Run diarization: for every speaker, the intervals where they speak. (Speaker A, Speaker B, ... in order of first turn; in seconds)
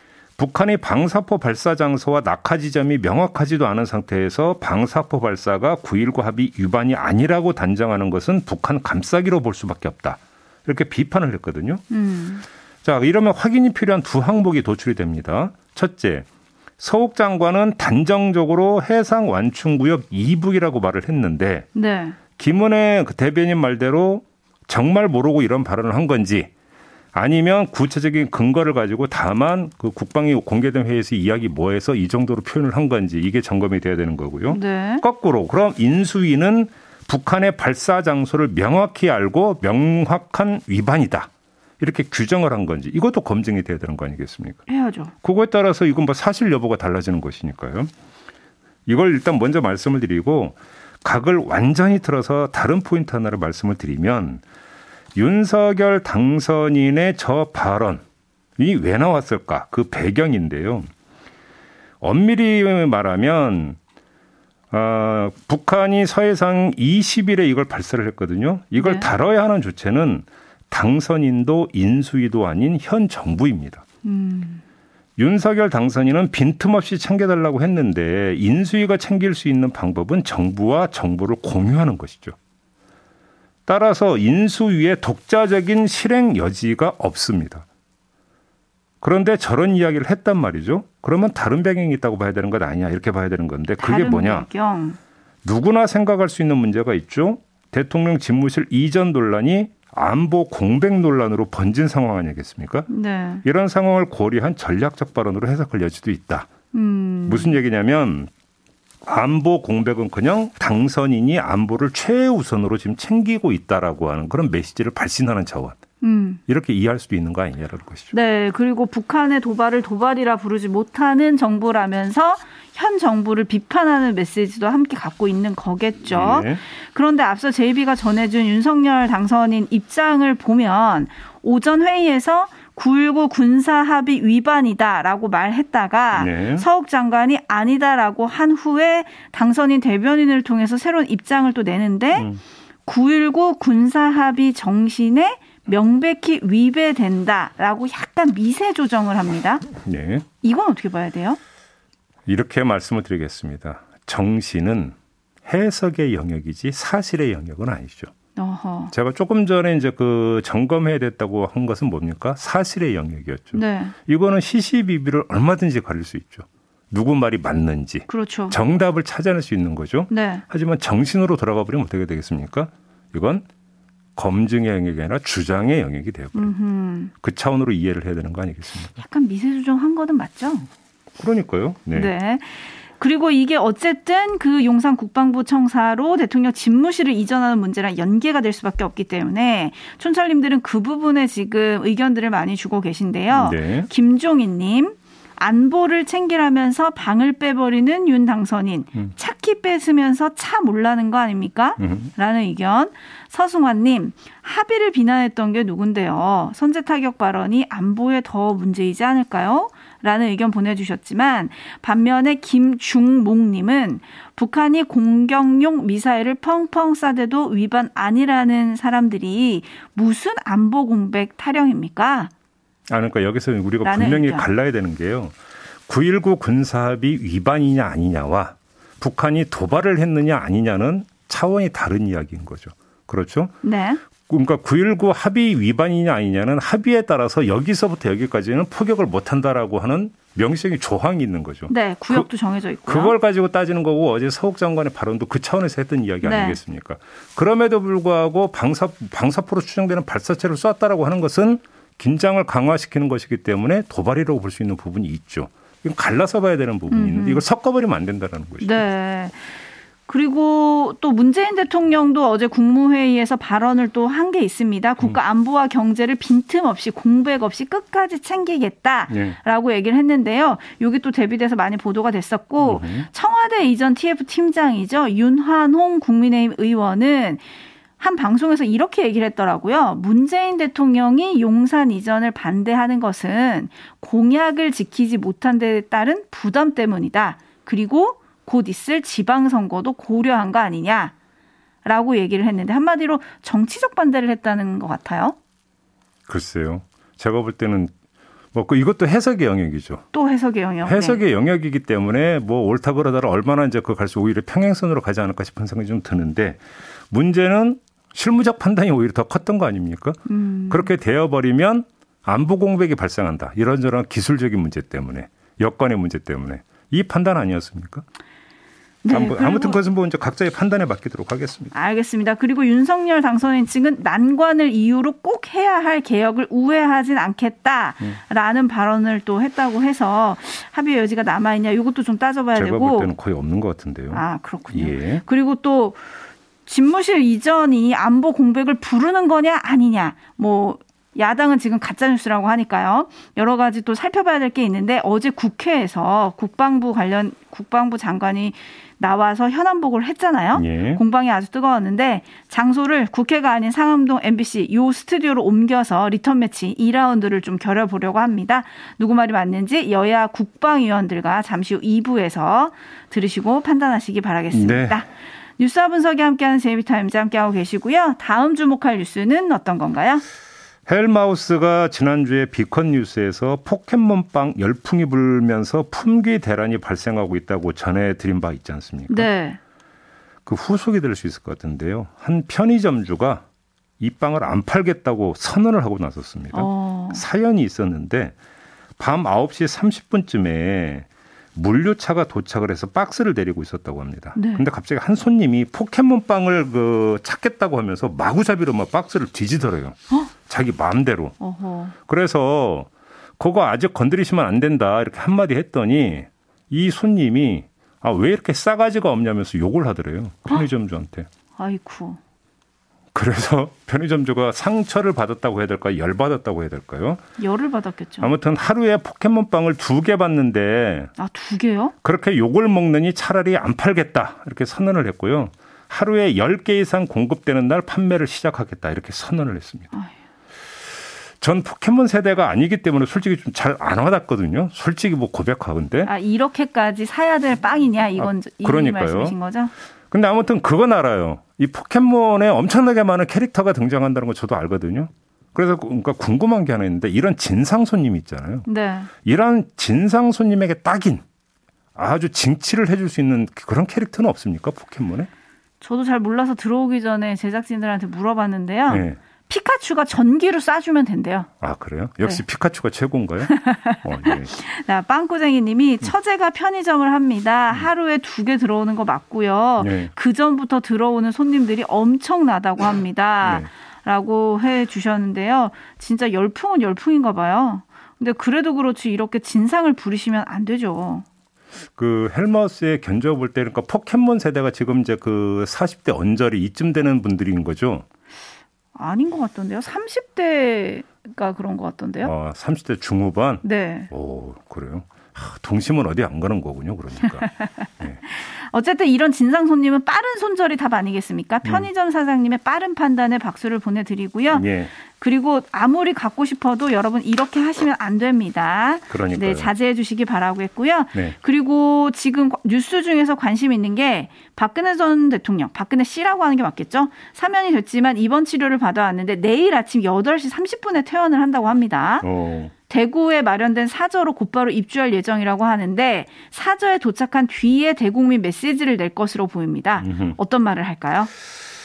Speaker A: 0.4-11.8, 12.8-16.2, 16.8-21.7, 22.4-26.5, 27.1-41.3, 41.8-44.6, 45.2-47.9, 48.9-54.4, 55.1-58.0, 58.6-60.9, 62.0-63.8, 64.7-73.8, 75.2-82.3, 83.7-87.6, 89.0-94.5, 95.4-102.9, 103.4-106.5, 107.3-108.3, 109.0-115.8, 116.5-118.1, 126.1-126.6, 136.1-136.7, 142.1-142.4, 149.8-150.2, 152.2-154.9, 155.5-158.1, 158.9-173.4, 174.2-176.5, 177.2-178.9, 181.2-182.1, 193.3-193.9, 201.8-202.1, 222.9-225.3, 225.9-233.5, 234.3-242.3, 242.8-258.8, 269.1-269.4, 272.6-273.1, 296.3-297.9, 298.5-300.0, 300.8-318.0, 319.1-321.7, 332.5-335.2, 350.5-351.0, 364.5-365.0, 370.9-379.3, 380.4-383.4, 384.0-388.3, 389.0-401.4, 402.1-411.3, 413.1-417.2, 418.2-421.1, 422.0-429.9, 431.4-436.1, 438.2-439.4, 440.1-448.7, 449.2-451.2, 451.9-455.3, 458.9-459.2, 461.6-464.5, 469.8-470.1, 473.4-473.7, 482.0-488.0, 492.2-498.2, 501.6-501.9, 504.5-504.9, 509.1-509.7, 522.2-522.7, 530.0-530.4
Speaker B: 11.9-12.4, 21.7-22.2, 34.5-35.0, 44.7-45.1, 68.8-69.1, 74.0-74.6, 93.8-95.0, 102.9-103.4, 106.7-107.6, 116.0-116.4, 118.1-142.3, 142.8-149.7, 150.4-151.4, 158.3-158.9, 163.5-163.9, 168.1-168.6, 170.1-170.4, 176.3-177.1, 178.9-180.7, 181.9-222.3, 223.8-224.5, 233.6-234.0, 241.7-243.2, 246.2-246.6, 256.9-257.4, 258.6-259.5, 260.1-277.4, 278.0-291.1, 291.8-295.4, 300.1-301.2, 310.3-310.9, 319.0-319.8, 321.7-333.1, 334.1-336.0, 336.6-370.2, 379.1-379.6, 386.5-387.2, 394.3-394.6, 401.4-401.9, 411.6-412.2, 417.4-418.3, 421.2-421.9, 436.0-439.7, 448.7-449.1, 455.8-461.5, 463.5-481.2, 488.9-492.3, 493.6-494.1, 497.6-522.3, 522.9-531.3